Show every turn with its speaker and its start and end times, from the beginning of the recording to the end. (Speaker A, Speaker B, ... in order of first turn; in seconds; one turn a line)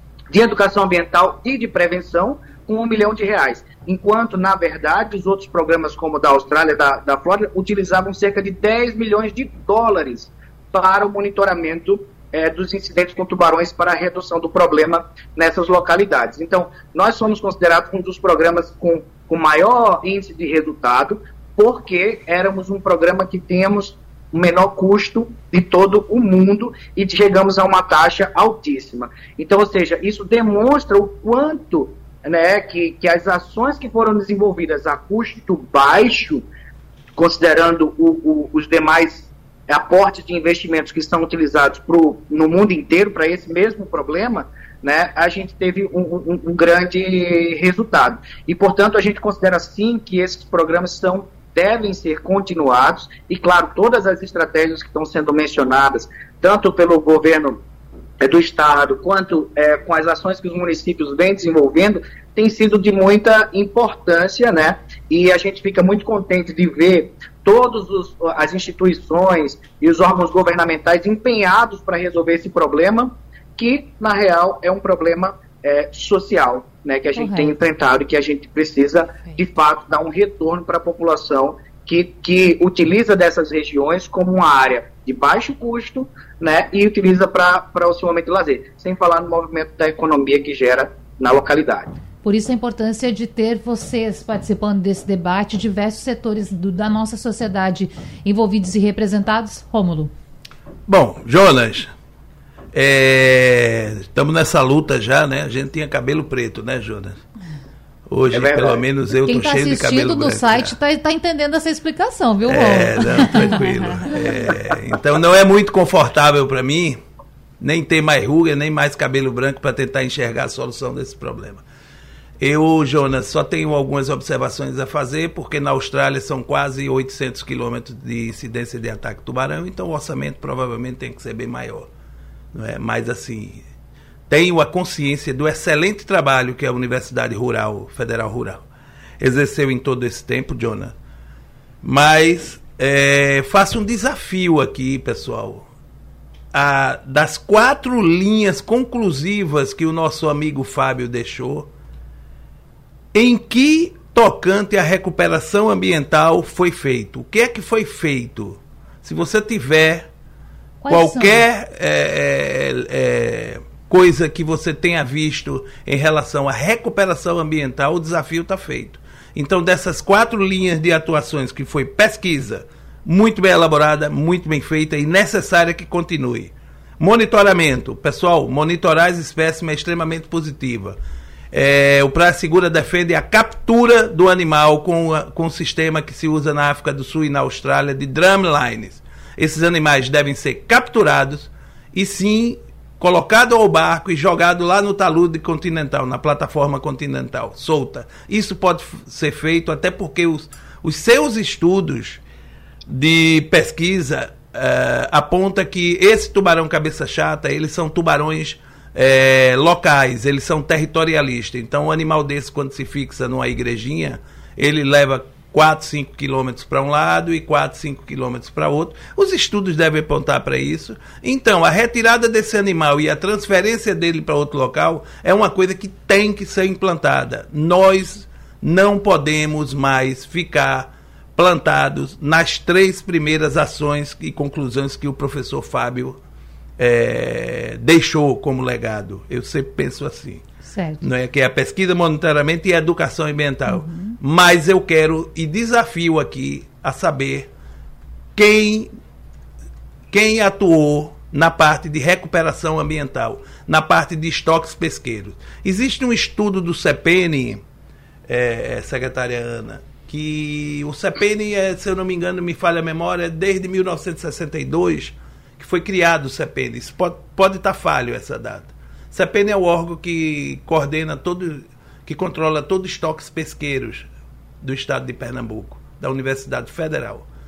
Speaker A: 0.3-36.5
Speaker A: 37.2-57.6
Speaker A: 58.2-91.9
Speaker B: 77.2-77.5
Speaker B: 92.2-100.1
Speaker C: 100.9-101.9
Speaker C: 102.7-107.2
Speaker C: 108.1-110.8
Speaker A: 108.3-108.8
Speaker B: 109.3-113.6
Speaker C: 112.5-117.0
Speaker C: 117.6-121.6
Speaker C: 122.4-131.9
Speaker C: 132.5-133.6
Speaker C: 134.3-138.6
Speaker C: 139.2-140.9
Speaker C: 141.8-145.7
Speaker C: 146.5-151.7
Speaker C: 153.1-160.1
Speaker B: 160.8-161.5
Speaker C: 160.9-181.0
Speaker C: 181.5-202.2
Speaker C: 202.9-236.2
Speaker C: 236.8-240.4
Speaker B: 240.6-241.1
Speaker C: 241.0-247.5
Speaker B: 243.7-244.2
Speaker C: 248.4-248.9
Speaker C: 250.1-257.6
Speaker C: 258.3-274.1
Speaker C: 274.6-277.3